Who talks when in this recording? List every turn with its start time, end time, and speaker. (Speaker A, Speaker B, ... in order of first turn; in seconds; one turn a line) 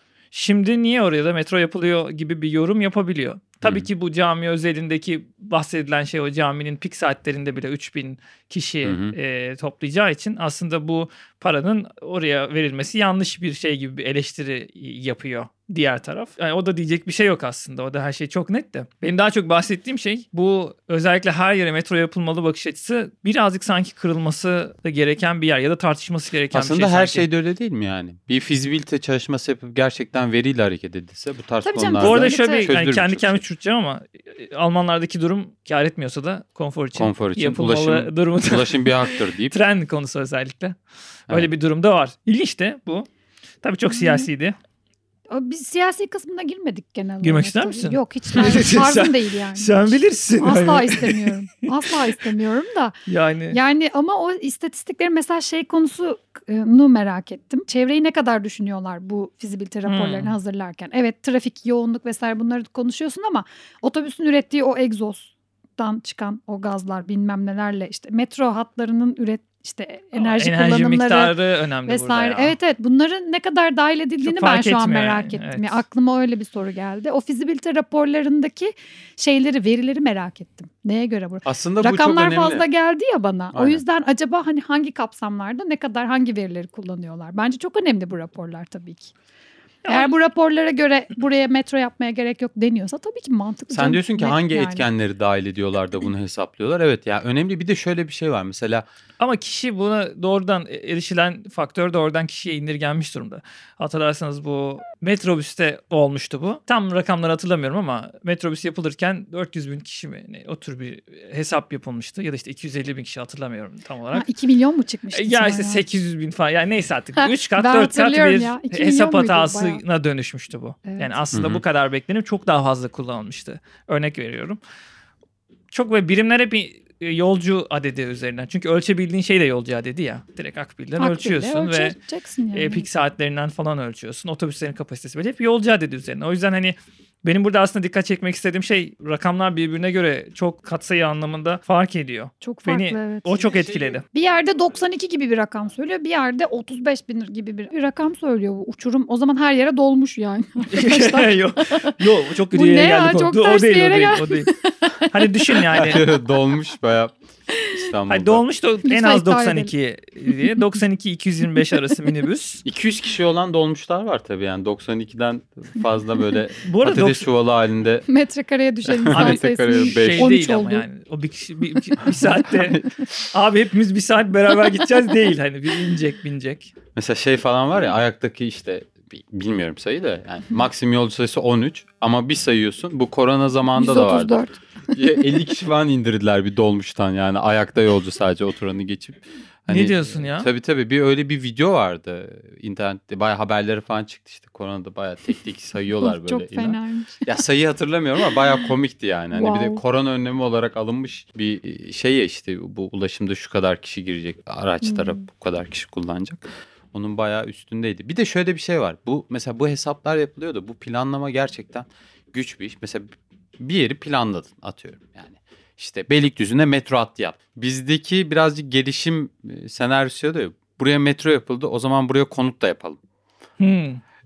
Speaker A: 0.3-27.2
Speaker B: 3.6-3.9
Speaker B: 8.8-9.1
Speaker B: 26.5-33.4
Speaker C: 31.6-32.7
Speaker A: 32.0-40.8
Speaker B: 36.9-39.6
Speaker A: 41.3-43.1
Speaker A: 43.6-44.5
Speaker C: 43.9-44.3
Speaker C: 45.3-53.0
Speaker A: 47.2-51.3
Speaker A: 53.1-53.6
Speaker C: 53.5-89.1
Speaker A: 59.9-60.4
Speaker A: 70.1-72.5
Speaker A: 74.2-75.8
Speaker B: 81.4-82.6
Speaker B: 83.5-83.8
Speaker A: 89.8-90.1
Speaker C: 89.9-94.9
Speaker B: 93.7-98.9
Speaker A: 99.2-114.3
Speaker C: 114.1-115.8
Speaker A: 115.1-124.6
Speaker C: 117.2-119.8
Speaker C: 120.8-121.1
Speaker B: 121.3-121.6
Speaker A: 125.7-131.9
Speaker C: 131.0-132.9
Speaker A: 132.5-144.0
Speaker C: 142.4-143.5
Speaker C: 144.1-156.0
Speaker A: 150.7-154.5
Speaker A: 155.1-156.0
Speaker B: 155.7-158.4
Speaker A: 158.1-162.6
Speaker C: 158.8-159.7
Speaker C: 160.3-160.5
Speaker B: 162.6-168.1
Speaker A: 166.7-167.3
Speaker C: 168.1-170.9
Speaker B: 168.9-170.3
Speaker A: 169.1-176.7
Speaker B: 176.9-223.0
Speaker C: 183.8-184.5
Speaker A: 189.7-190.5
Speaker C: 196.0-197.3
Speaker C: 199.3-199.8
Speaker C: 204.8-205.2
Speaker A: 223.6-224.0